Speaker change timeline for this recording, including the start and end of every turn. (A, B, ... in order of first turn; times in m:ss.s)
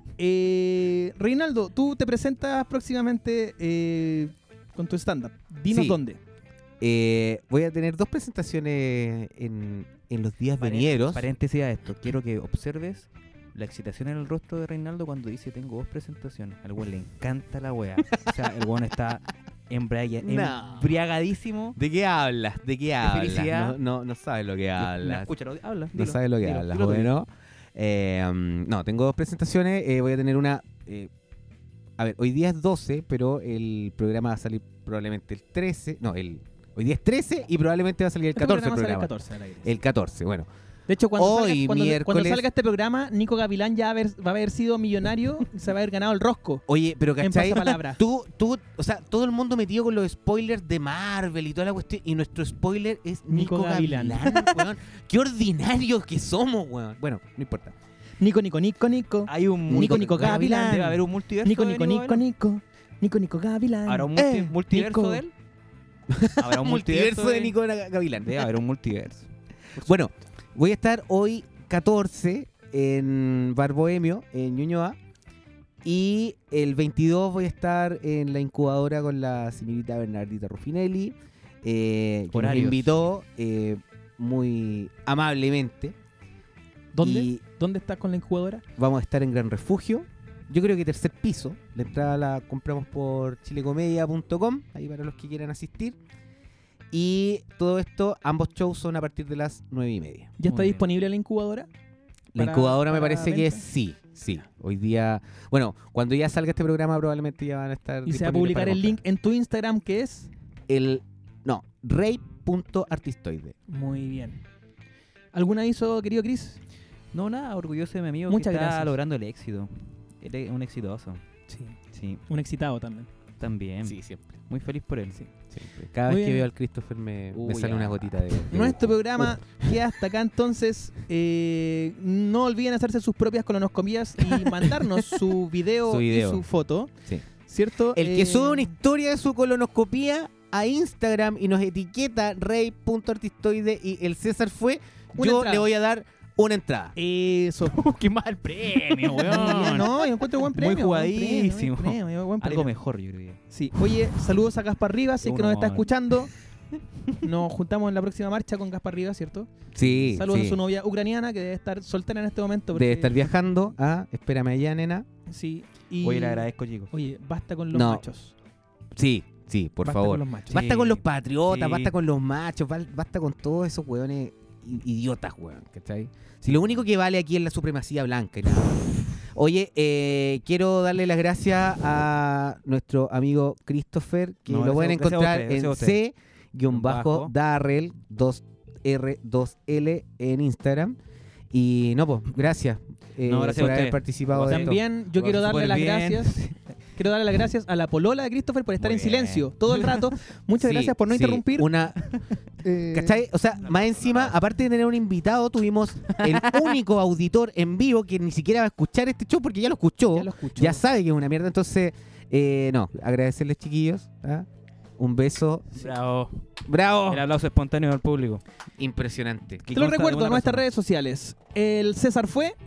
0:00.2-0:06.2 A
0:05.7-0:06.0 B
0:06.8-0:11.3 B
0:10.6-0:21.8 C
0:20.2-0:21.0 B
0:21.8-0:25.3 B
0:23.0-0:23.8 C
0:24.8-0:27.1 C
0:25.9-0:31.1 B
0:32.0-0:39.1 B
0:38.3-0:39.7 A
0:39.6-0:40.5 B
0:40.9-0:46.6 A
0:41.2-0:42.5 B
0:46.7-0:57.7 B
0:47.2-0:48.0 A
0:53.3-0:54.5 A
0:58.2-1:05.2 A
0:59.3-1:02.2 C
0:59.7-1:01.0 B
1:03.9-1:05.3 C
1:04.2-1:04.5 B
1:06.1-1:08.5 B
1:06.4-1:07.6 C
1:08.2-1:09.3 C
1:09.8-1:15.0 B
1:15.8-1:26.0 B
1:22.3-1:23.0 C
1:26.9-1:28.6 A
1:27.0-1:27.4 B
1:28.8-1:36.0 B
1:36.9-1:40.4 B
1:40.4-1:41.7 A
1:40.5-1:40.8 C
1:42.3-1:49.0 B
1:42.3-1:43.6 A
1:48.0-1:50.3 A
1:50.7-1:53.5 B
1:53.7-1:54.4 A
1:55.3-1:56.6 A
1:57.1-2:01.2 C
1:58.3-1:59.0 A
2:01.5-2:01.8 A
2:01.9-2:02.2 C
2:02.3-2:03.1 A
2:03.4-2:05.2 C
2:03.8-2:04.2 B
2:05.5-2:09.4 B
2:06.1-2:06.5 A
2:07.3-2:08.4 C
2:08.5-2:16.9 A
2:15.8-2:16.4 B
2:17.4-2:18.7 A
2:17.9-2:27.0 B
2:25.2-2:25.7 A
2:27.0-2:27.8 A
2:27.6-2:33.8 C
2:29.0-2:32.7 A
2:33.5-2:36.3 A
2:35.2-2:36.0 C
2:37.2-2:43.3 A
2:39.7-2:40.6 B
2:42.7-2:45.0 B
2:45.3-2:48.3 A
2:46.0-2:46.9 C
2:47.7-2:48.0 B
2:48.9-3:11.0 B
2:49.8-2:50.6 A
2:50.5-2:51.9 C
3:04.5-3:06.0 C
3:06.7-3:07.3 C
3:11.5-3:14.8 B
3:13.2-3:16.6 C
3:14.5-3:16.4 A
3:17.0-3:21.7 A
3:18.8-3:20.1 C
3:20.6-3:20.9 C
3:21.0-3:22.0 B
3:22.6-3:23.2 A
3:22.9-3:34.5 B
3:23.7-3:24.3 C
3:26.1-3:26.7 C
3:30.1-3:30.8 A
3:35.0-3:35.9 B
3:35.7-3:36.4 C
3:36.6-3:37.2 B
3:37.1-3:38.4 C
3:38.8-3:39.6 B
3:39.6-3:40.6 C
3:39.7-3:42.6 A